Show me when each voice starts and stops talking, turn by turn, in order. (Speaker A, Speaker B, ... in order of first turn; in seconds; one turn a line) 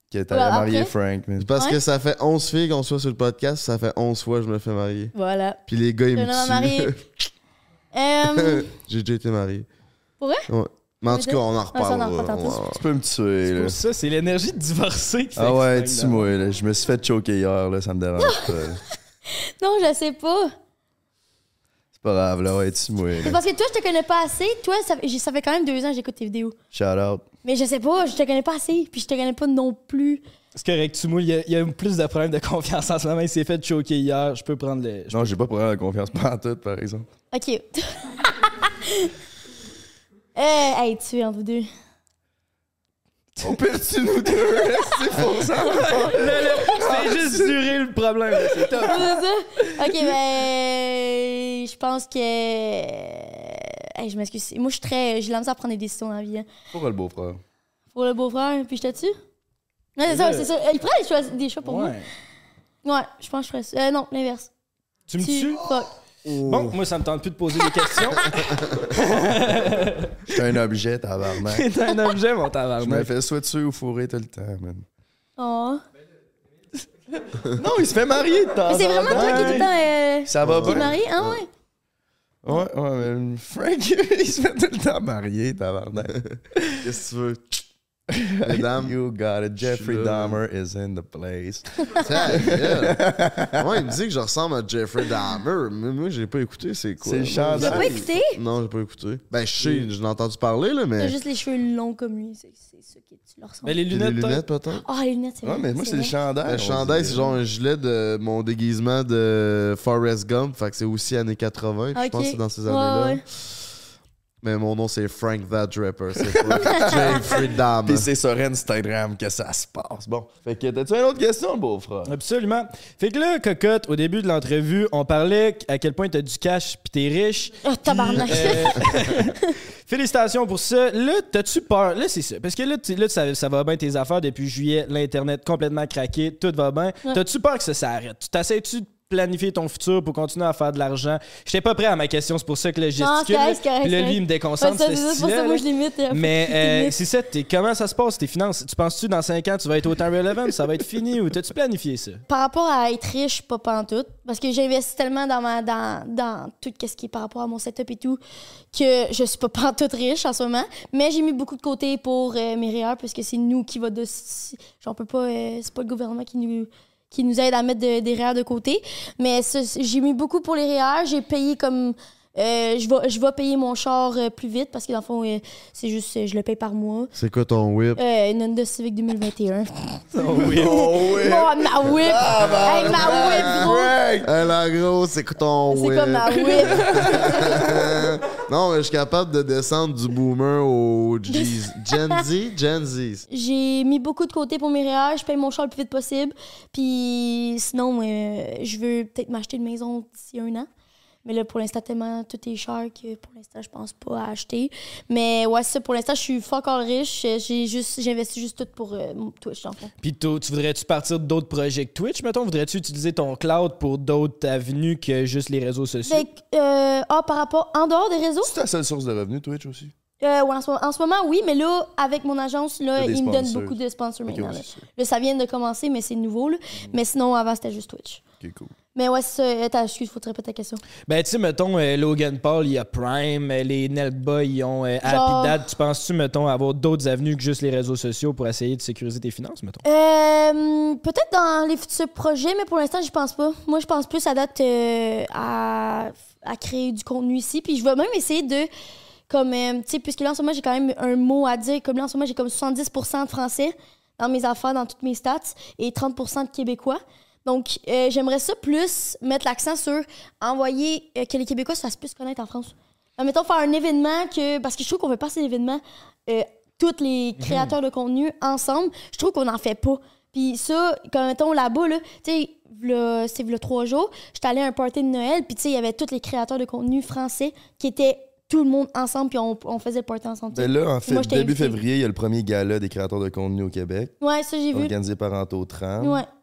Speaker A: 0.1-1.5
Speaker B: 0.3-0.9
Speaker C: 1.4-5.1
Speaker B: 5.1-5.6
Speaker C: 5.7-7.0
Speaker B: 6.1-6.9
Speaker B: 7.9-8.7
Speaker C: 8.3-9.7
Speaker B: 10.2-10.5
Speaker C: 10.5-12.8
Speaker B: 11.1-12.6
Speaker A: 12.7-13.8
Speaker D: 13.5-16.3
Speaker A: 15.3-18.8
Speaker B: 18.2-18.5
Speaker B: 19.3-20.5
Speaker A: 21.9-23.4
Speaker B: 23.2-26.6
Speaker A: 26.7-27.2
Speaker B: 27.4-30.2
Speaker D: 30.5-35.3
Speaker A: 35.1-37.1
Speaker B: 37.3-39.1
Speaker B: 40.4-41.7
Speaker A: 43.4-47.5
Speaker D: 45.6-49.2
Speaker A: 48.3-49.0
Speaker B: 48.8-56.5
Speaker A: 56.7-57.4
Speaker B: 57.9-59.1
Speaker B: 60.0-61.9
Speaker D: 60.0-60.5
Speaker D: 61.6-62.1
Speaker B: 62.8-64.5
Speaker D: 65.1-65.6
Speaker B: 65.2-65.9
Speaker C: 66.2-66.8
Speaker D: 66.3-70.4
Speaker A: 70.3-71.7
Speaker D: 71.4-73.1
Speaker A: 72.8-74.8
Speaker B: 75.4-75.8
Speaker A: 77.5-79.7
Speaker B: 78.7-81.5
Speaker D: 79.1-79.7
Speaker A: 80.2-80.9
Speaker C: 80.4-81.4
Speaker A: 82.4-86.6
Speaker C: 86.1-87.6
Speaker A: 88.1-93.9
Speaker C: 88.4-89.0
Speaker C: 89.6-90.4
Speaker C: 92.0-93.0
Speaker C: 93.6-101.2
Speaker A: 97.0-98.1
Speaker B: 97.6-98.4
Speaker B: 101.0-103.8
Speaker D: 103.6-104.4
Speaker C: 103.9-104.8
Speaker B: 104.8-106.2
Speaker A: 105.4-107.4
Speaker C: 106.5-113.4
Speaker B: 111.9-113.2
Speaker C: 114.4-118.1
Speaker A: 116.2-122.1
Speaker D: 122.1-152.2
Speaker B: 127.6-129.5
Speaker B: 143.0-147.0
Speaker B: 152.3-158.2
Speaker B: 158.7-177.1
Speaker C: 177.1-178.0
Speaker B: 178.0-183.9
Speaker D: 180.1-180.9
Speaker A: 180.2-184.3
Speaker C: 182.4-183.7
Speaker C: 184.2-193.2
Speaker B: 185.7-187.4
Speaker A: 186.6-188.1
Speaker B: 193.3-200.7
Speaker B: 201.2-209.9
Speaker D: 210.0-216.2
Speaker B: 216.1-218.5
Speaker A: 218.4-219.9
Speaker B: 220.2-228.2
Speaker A: 222.9-224.8
Speaker A: 228.4-228.7
Speaker B: 228.9-230.8
Speaker D: 231.1-239.8
Speaker B: 235.0-235.6
Speaker B: 239.8-248.7
Speaker B: 249.3-281.8
Speaker D: 267.4-267.7
Speaker A: 280.5-284.1
Speaker B: 284.2-284.9
Speaker A: 284.7-286.2
Speaker B: 286.0-286.3